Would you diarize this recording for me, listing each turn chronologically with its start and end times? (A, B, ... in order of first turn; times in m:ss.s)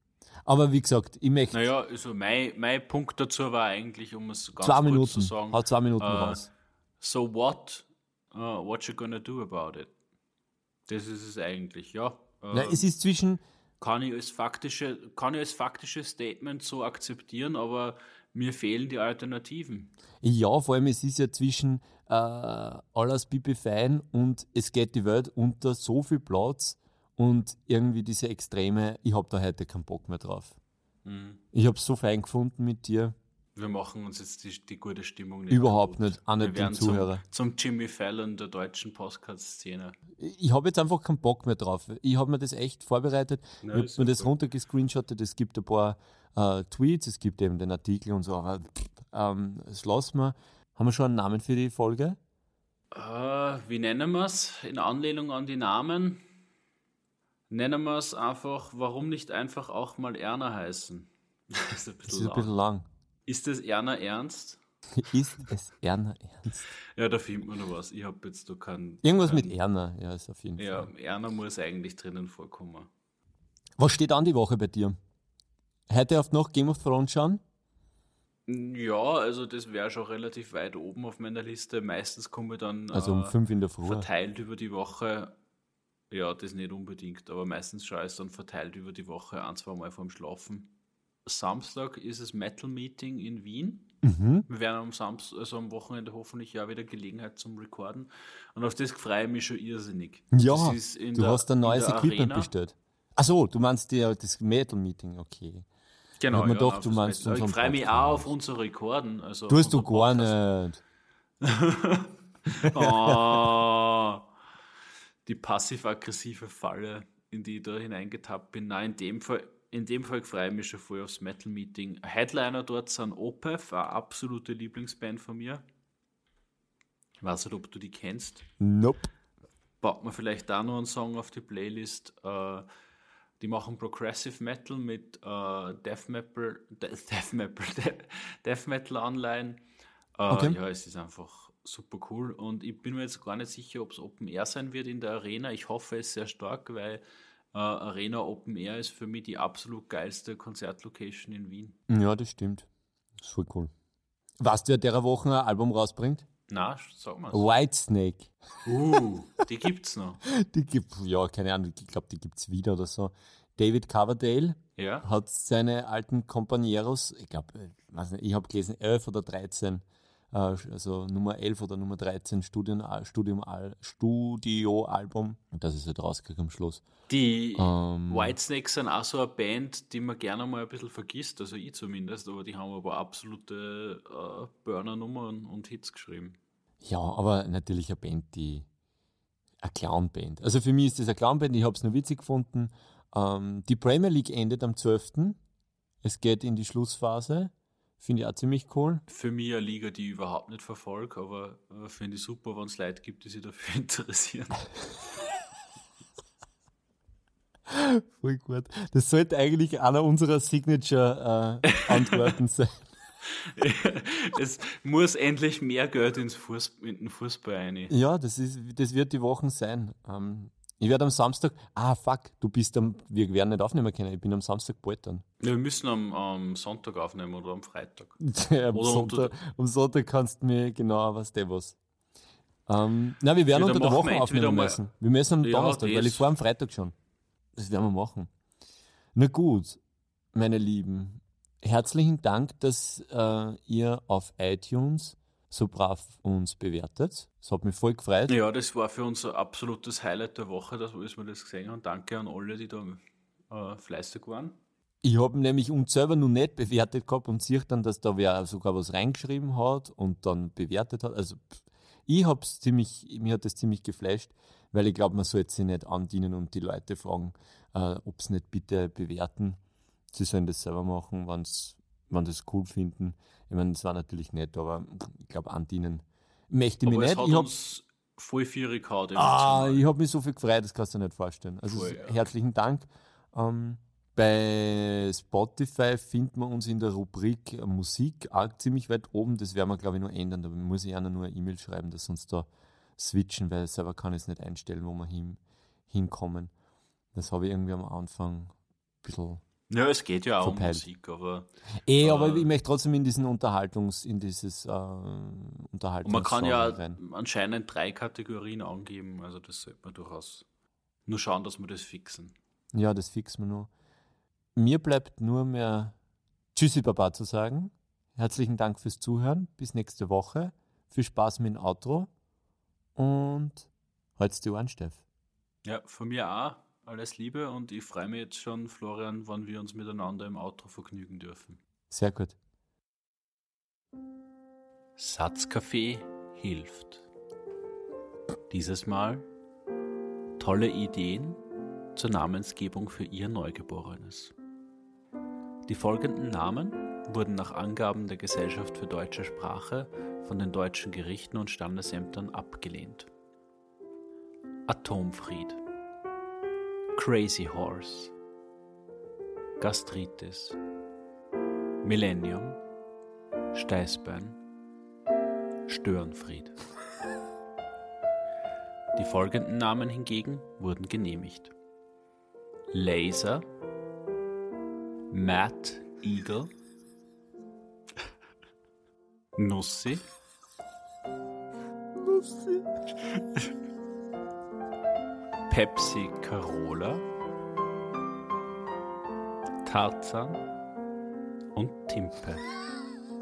0:00.4-0:01.6 A
0:01.5-0:06.4 B
0:04.6-0:06.5 A
0:07.0-0:09.9 B
0:10.9-0:12.9 B
0:12.5-0:13.4 A
0:13.8-0:19.9 B
0:20.2-0:30.6 A
0:31.0-0:31.4 B
0:31.5-0:33.1 A
0:33.6-0:40.0 B
0:35.5-0:37.2 A
0:40.2-0:52.2 A
0:43.6-0:44.3 B
0:52.9-0:56.2 B
0:57.5-1:02.5 B
1:02.1-1:02.8 A
1:03.3-1:04.6 B
1:04.9-1:06.7 A
1:07.0-1:09.5 B
1:09.0-1:10.9 A
1:10.6-1:12.9 B
1:13.8-1:15.0 A
1:15.9-1:17.4 A
1:18.5-1:25.3 B
1:22.9-1:24.1 A
1:26.1-1:30.7 B
1:31.2-1:33.9 B
1:34.0-1:34.4 A
1:34.5-1:42.5 B
1:40.3-1:45.7 A
1:46.2-1:50.4 B
1:46.3-1:48.3 A
1:49.5-1:50.8 A
1:51.4-1:54.2 B
1:52.6-1:53.4 A
1:55.2-2:05.6 B
2:07.2-2:08.4 B
2:08.6-2:09.1 A
2:09.8-2:12.6 B
2:13.4-2:19.6 B
2:20.2-2:27.0 B
2:20.3-2:20.6 A
2:27.5-2:31.8 B
2:31.9-2:32.7 A
2:33.2-2:33.7 A
2:34.4-2:36.2 A
2:36.5-2:37.4 B
2:37.3-2:38.3 A
2:38.6-2:40.2 B
2:40.2-2:56.8 A
2:44.8-2:45.1 B
2:57.1-3:06.4 B
2:57.5-2:58.4 A
3:06.8-3:08.6 A
3:09.6-3:15.4 A
3:16.0-3:19.0 A
3:19.1-3:24.7 B
3:27.7-3:32.9 A
3:31.8-3:32.3 B
3:33.4-3:37.9 B
3:37.9-3:45.2 A
3:45.4-3:48.2 B
3:48.2-3:51.8 A
3:48.7-3:49.4 B
3:52.7-3:56.9 A
3:53.5-3:54.8 B
3:55.4-3:56.3 B
3:57.6-3:58.3 A
3:59.1-3:59.8 A
4:00.3-4:08.4 A
4:08.3-4:14.6 B
4:15.0-4:29.6 A
4:30.1-4:37.5 A
4:36.8-4:39.8 B
4:39.1-4:56.5 A
4:41.7-4:42.2 B
4:57.1-4:59.4 A
4:59.7-5:02.5 B
5:00.4-5:00.8 A
5:01.8-5:07.0 A
5:06.0-5:10.4 B
5:11.1-5:12.3 B
5:12.7-5:13.7 A
5:14.5-5:16.0 A
5:16.5-5:22.1 A
5:23.0-5:25.0 A
5:25.6-5:31.6 B
5:31.9-5:32.4 A
5:35.0-5:37.1 B
5:38.5-5:39.2 B
5:40.4-5:41.4 B
5:41.9-5:44.3 B
5:45.6-5:53.1 B
5:54.7-5:55.6 B
5:57.0-5:58.1 B
5:59.6-6:00.6 B
6:01.8-6:02.6 B
6:03.5-6:04.4 B
6:05.7-6:06.6 B
6:09.0-6:11.5 B
6:12.7-6:13.4 B
6:15.1-6:16.5 B
6:19.4-6:20.0 B
6:22.0-6:22.6 A
6:25.5-6:27.0 B
6:29.6-6:30.4 B
6:31.5-6:32.4 B